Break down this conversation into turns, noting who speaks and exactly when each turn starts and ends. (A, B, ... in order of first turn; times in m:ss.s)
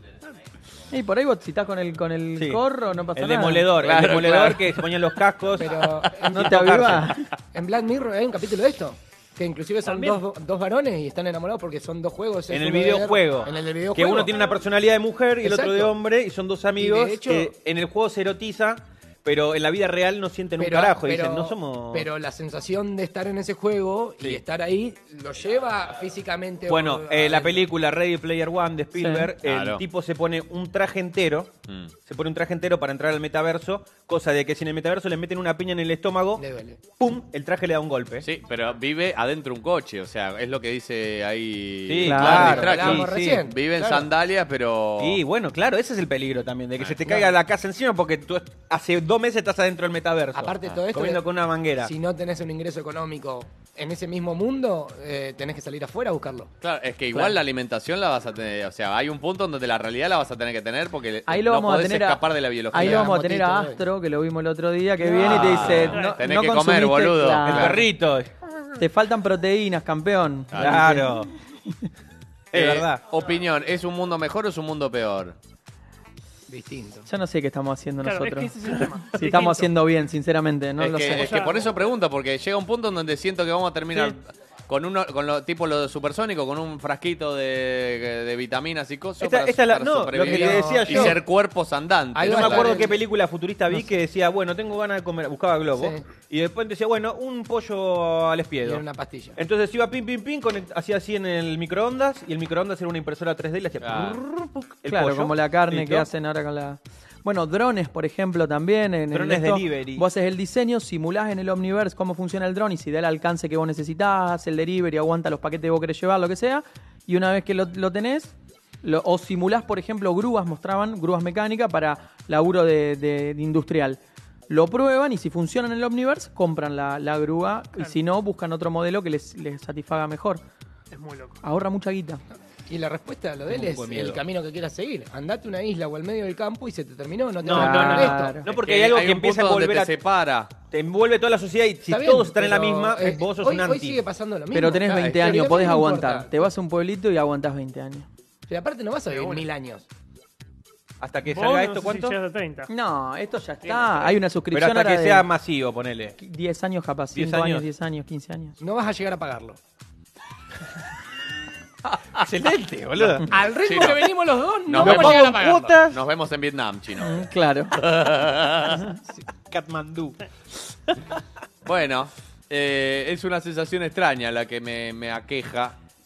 0:00.9-0:03.7 A
0:02.4-0:02.6 B
0:03.1-0:07.1 B
0:03.8-0:05.0 C
0:05.6-0:06.5 D
0:06.3-0:07.3 A
0:07.5-0:14.5 D
0:09.8-0:10.2 E
0:12.5-0:22.1 B
0:15.4-0:16.0 D
0:16.8-0:17.5 D
0:20.6-0:27.6 D
0:26.7-0:31.5 B
0:28.9-0:29.3 A
0:29.4-0:29.8 C
0:32.0-0:36.4 B
0:36.4-0:36.8 D
0:37.0-0:38.2 B
0:38.2-0:45.2 C
0:41.9-0:44.1 B
0:42.0-0:42.6 A
0:42.3-0:43.6 D
0:45.0-0:51.9 B
0:46.8-0:47.2 C
0:50.3-0:51.2 D
0:51.8-0:56.5 D
0:56.6-1:03.2 C
1:01.2-1:07.8 A
1:02.7-1:03.8 D
1:05.1-1:05.9 B
1:05.1-1:07.8 C
1:07.4-1:08.4 B
1:08.8-1:11.7 A
1:10.5-1:10.9 C
1:10.6-1:11.3 B
1:12.5-1:13.0 B
1:12.5-1:15.4 C
1:16.5-1:17.1 D
1:17.0-1:21.3 A
1:18.0-1:19.7 E
1:20.8-1:32.8 C
1:21.2-1:21.7 E
1:29.2-1:31.2 B
1:30.2-1:31.1 A
1:30.4-1:31.2 D
1:32.1-1:33.0 D
1:32.3-1:38.8 B
1:35.8-1:36.0 D
1:38.6-1:39.4 D
1:39.4-1:46.1 B
1:43.8-1:44.2 C
1:44.9-2:10.4 A
1:49.1-1:50.0 B
2:10.9-2:11.4 E
2:11.4-2:12.2 A
2:12.7-2:18.4 D
2:13.5-2:14.2 B
2:17.4-2:19.9 B
2:17.5-2:18.5 A
2:18.5-2:20.5 C
2:20.7-2:24.0 B
2:21.8-2:26.5 D
2:24.5-2:28.1 A
2:24.8-2:25.5 C
2:28.5-2:29.8 D
2:29.1-2:29.4 C
2:31.0-2:32.2 B
2:31.3-2:32.7 E
2:32.7-2:35.3 A
2:33.6-2:34.2 C
2:34.5-2:36.2 B
2:36.2-2:38.6 A
2:37.1-2:37.7 B
2:38.6-2:39.6 D
2:42.2-2:43.2 B
2:43.3-2:45.3 D
2:43.6-2:48.9 C
2:44.8-2:46.0 B
2:47.0-2:47.7 A
2:49.5-2:50.2 B
2:51.6-2:55.8 C